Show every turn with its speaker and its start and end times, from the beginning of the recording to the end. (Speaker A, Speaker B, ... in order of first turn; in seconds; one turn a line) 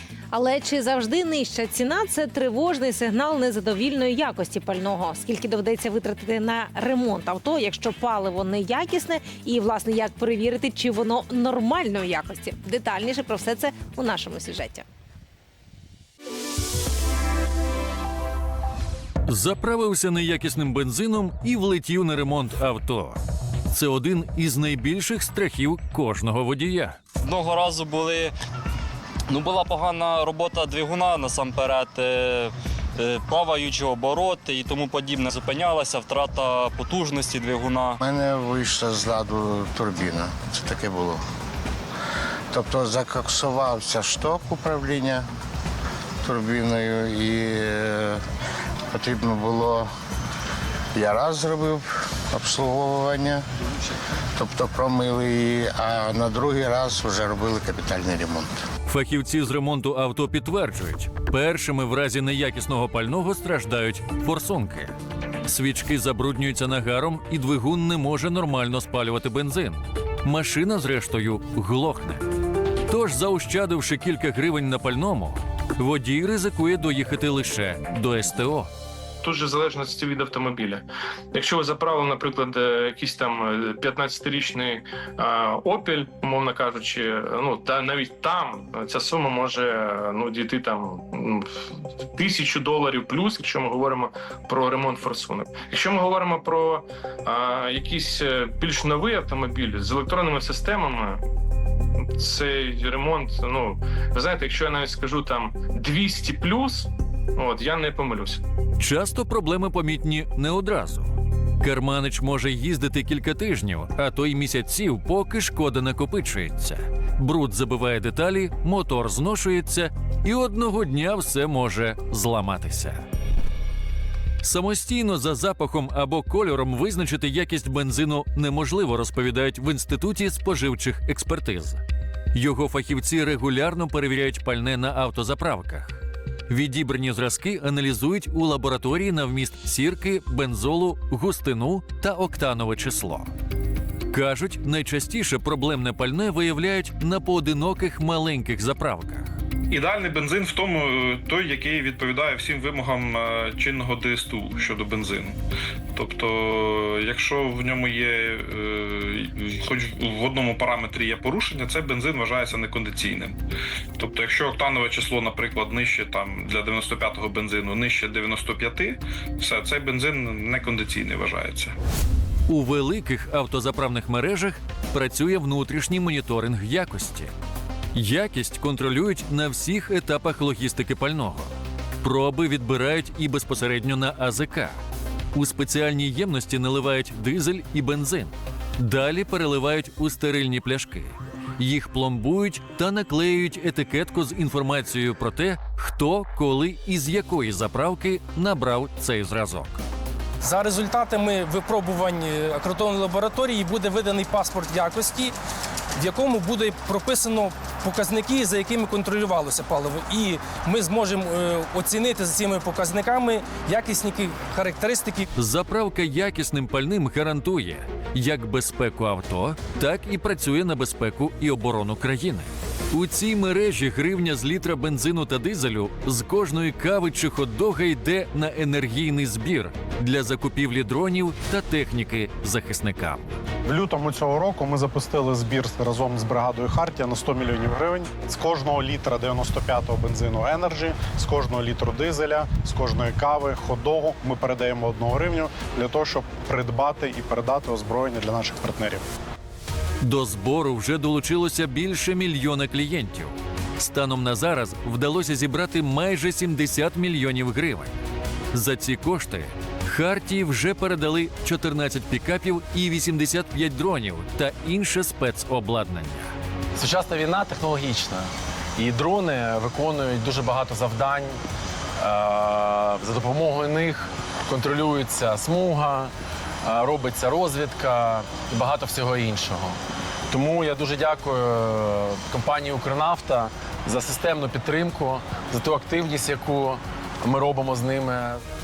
Speaker A: 0.3-14.8
Speaker B: 19.3-23.2
Speaker B: 23.7-27.0
Speaker C: 27.2-28.3
Speaker C: 29.3-38.0
Speaker D: 38.0-41.2
Speaker D: 42.5-45.2
Speaker D: 46.2-48.2
Speaker D: 48.9-49.9
Speaker D: 51.0-53.4
Speaker D: 54.4-58.5
Speaker B: 58.9-64.9
Speaker B: 65.5-72.2
Speaker B: 72.9-78.7
Speaker E: 79.2-101.2
Speaker E: 102.2-108.4
Speaker B: 108.8-123.0
Speaker B: 124.4-131.8
Speaker B: 132.3-143.3
Speaker B: 144.1-149.3
Speaker F: 149.7-155.4
Speaker F: 155.9-163.4
Speaker F: 164.0-171.7
Speaker B: 172.5-177.3
Speaker B: 177.9-184.8
Speaker B: 185.3-199.8
Speaker G: 200.4-205.3
Speaker G: 206.0-215.3
Speaker B: 215.4-233.3
Speaker H: 233.7-249.0
Speaker B: 250.0-257.9
Speaker B: 258.5-266.3
Speaker I: 266.8-271.4
Speaker I: 272.0-276.1
Speaker I: 276.6-279.8
Speaker I: 280.3-288.4